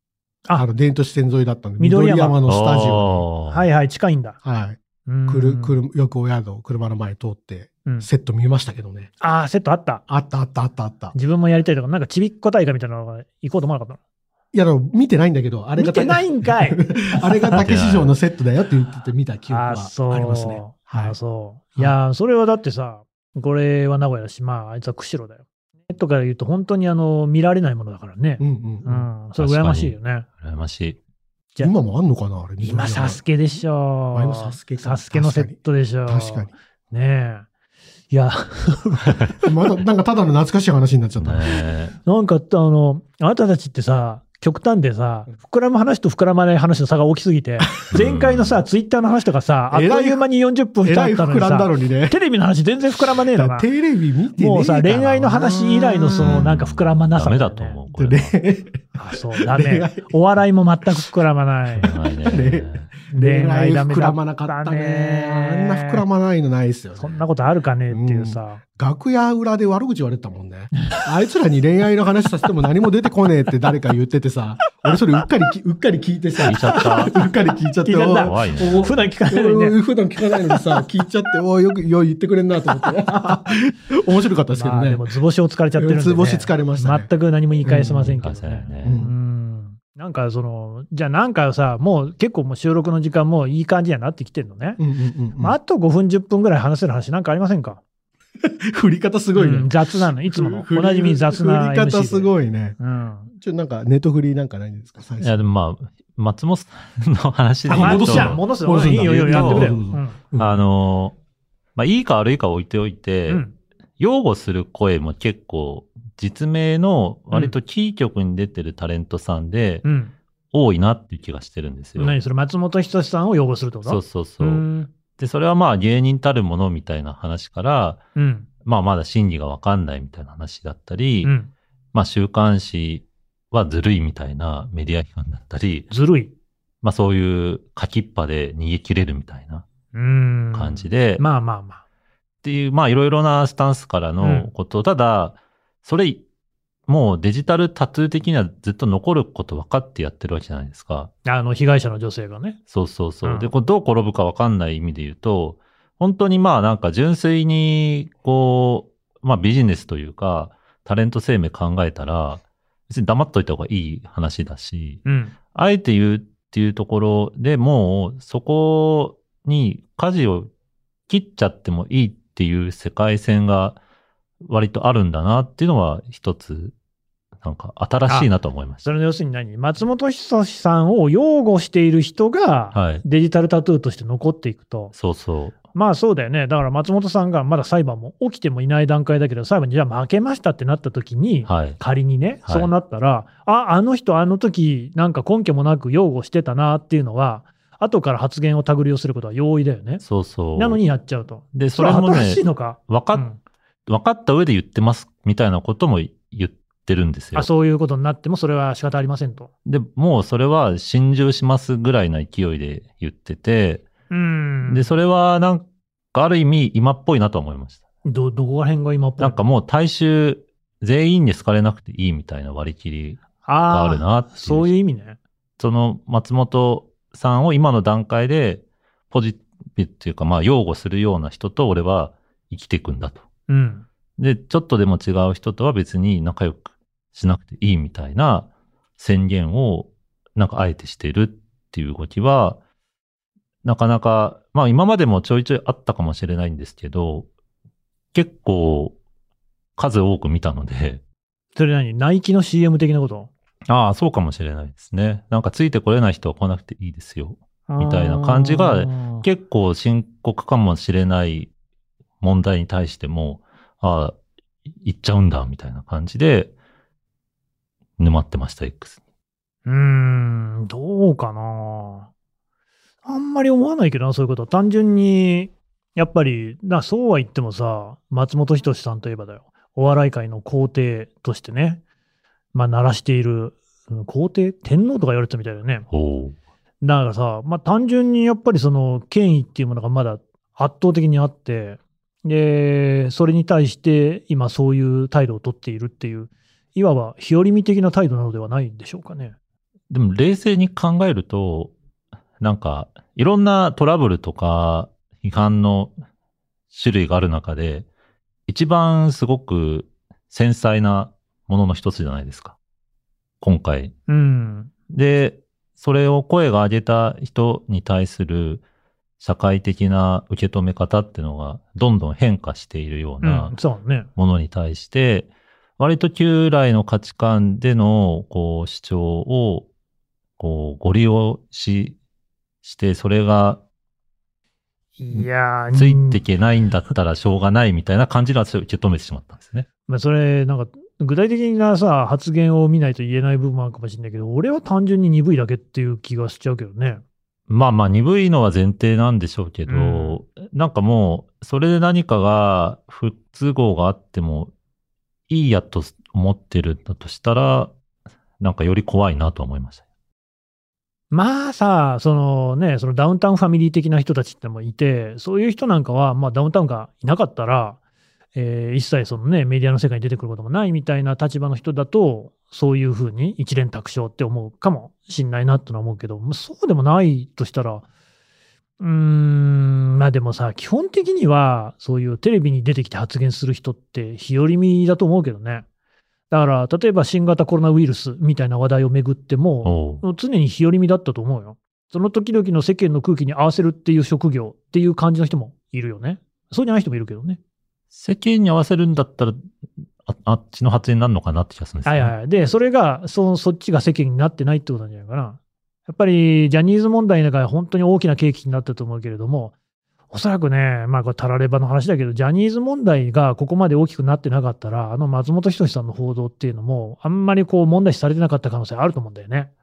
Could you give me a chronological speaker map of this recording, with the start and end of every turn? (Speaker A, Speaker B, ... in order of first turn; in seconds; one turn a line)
Speaker A: 0.6-3.2
Speaker B: 1.8-2.4
Speaker C: 2.5-3.6
Speaker B: 3.5-4.4
Speaker A: 4.4-9.1
Speaker B: 5.1-5.8
Speaker B: 9.2-10.0
Speaker A: 10.1-11.1
Speaker B: 11.1-14.0
Speaker A: 14.5-21.2
Speaker B: 15.8-17.6
Speaker C: 17.6-18.1
Speaker B: 19.5-30.2
Speaker A: 28.4-29.1
Speaker C: 29.4-31.0
Speaker A: 31.6-33.2
Speaker B: 32.6-37.4
Speaker A: 34.1-36.5
Speaker B: 38.1-39.5
Speaker A: 39.5-41.5
Speaker C: 41.2-42.0
Speaker B: 42.0-53.7
Speaker C: 47.9-48.6
Speaker A: 49.7-50.2
Speaker A: 50.8-52.2
Speaker A: 53.1-56.5
Speaker B: 54.4-57.8
Speaker C: 56.2-58.3
Speaker A: 57.9-58.8
Speaker B: 59.0-61.9
Speaker A: 59.4-60.1
Speaker C: 61.8-62.9
Speaker A: 61.8-67.2
Speaker B: 63.1-66.0
Speaker B: 67.0-68.6
Speaker A: 67.9-85.0
Speaker C: 76.5-77.1
Speaker B: 76.6-77.1
Speaker B: 77.8-79.8
Speaker C: 78.2-79.0
Speaker B: 80.5-80.8
Speaker B: 83.1-83.4
Speaker B: 84.5-94.8
Speaker A: 85.8-87.1
Speaker A: 87.6-88.2
Speaker C: 88.2-89.0
Speaker A: 88.8-89.1
Speaker A: 94.8-95.6
Speaker B: 95.4-97.8
Speaker A: 98.4-102.8
Speaker B: 99.3-103.3
Speaker A: 103.3-105.4
Speaker C: 105.2-109.8
Speaker A: 107.7-110.6
Speaker B: 107.7-110.2
Speaker C: 110.4-111.1
Speaker C: 111.8-113.4
Speaker B: 113.3-113.5
Speaker C: 114.0-119.8
Speaker B: 119.8-120.1
Speaker C: 120.5-122.2
Speaker B: 122.0-124.9
Speaker C: 123.8-128.0
Speaker B: 128.2-128.5
Speaker C: 128.6-131.3
Speaker B: 131.2-131.5
Speaker C: 131.9-135.9
Speaker B: 135.9-136.3
Speaker C: 136.8-139.6
Speaker B: 139.9-141.8
Speaker C: 140.5-141.2
Speaker C: 142.4-146.2
Speaker B: 144.2-144.5
Speaker C: 146.9-151.1
Speaker B: 151.2-152.6
Speaker C: 152.7-170.5
Speaker B: 153.2-153.5
Speaker B: 165.0-165.3
Speaker C: 171.1-173.8
Speaker C: 174.4-176.7
Speaker C: 177.4-178.8
Speaker B: 178.8-184.9
Speaker C: 182.7-183.0
Speaker C: 184.9-185.6
Speaker B: 185.7-200.0
Speaker C: 191.5-191.8
Speaker C: 192.4-192.7
Speaker C: 200.0-200.8
Speaker B: 200.5-203.4
Speaker C: 201.5-203.3
Speaker C: 203.9-207.5
Speaker B: 207.3-209.5
Speaker C: 209.7-213.8
Speaker B: 214.1-214.9
Speaker C: 214.7-217.8
Speaker B: 218.0-219.4
Speaker C: 219.2-224.7
Speaker B: 223.4-225.2
Speaker C: 225.6-233.2
Speaker B: 233.5-233.8
Speaker C: 234.2-242.6
Speaker C: 243.6-247.3
Speaker C: 248.1-248.9
Speaker C: 249.8-251.0
Speaker B: 251.6-253.3
Speaker C: 253.7-261.5
Speaker B: 257.7-259.2
Speaker C: 262.2-264.1
Speaker C: 264.8-266.5
Speaker C: 268.0-269.0
Speaker B: 269.6-272.1
Speaker B: 273.0-281.8
Speaker B: 282.5-285.9
Speaker C: 285.9-286.4
Speaker B: 286.8-299.3
Speaker C: 299.9-301.7
Speaker C: 302.4-305.9
Speaker C: 306.7-307.9
Speaker C: 308.5-312.6
Speaker C: 313.4-313.9
Speaker B: 314.1-314.7
Speaker C: 314.9-318.6
Speaker C: 319.2-323.5
Speaker B: 323.2-324.1
Speaker C: 324.1-329.7
Speaker C: 330.4-332.0
Speaker C: 332.6-333.6
Speaker B: 335.0-336.2
Speaker C: 335.1-339.7
Speaker B: 339.9-347.0
Speaker C: 347.5-354.5
Speaker B: 349.7-350.2
Speaker C: 355.3-357.7
Speaker C: 358.4-359.8
Speaker B: 361.1-367.8
Speaker B: 368.3-377.8
Speaker B: 378.8-385.6
Speaker B: 386.3-397.4
Speaker C: 389.6-390.0
Speaker C: 397.9-399.4
Speaker C: 400.1-402.1
Speaker B: 401.8-409.5
Speaker B: 410.1-419.5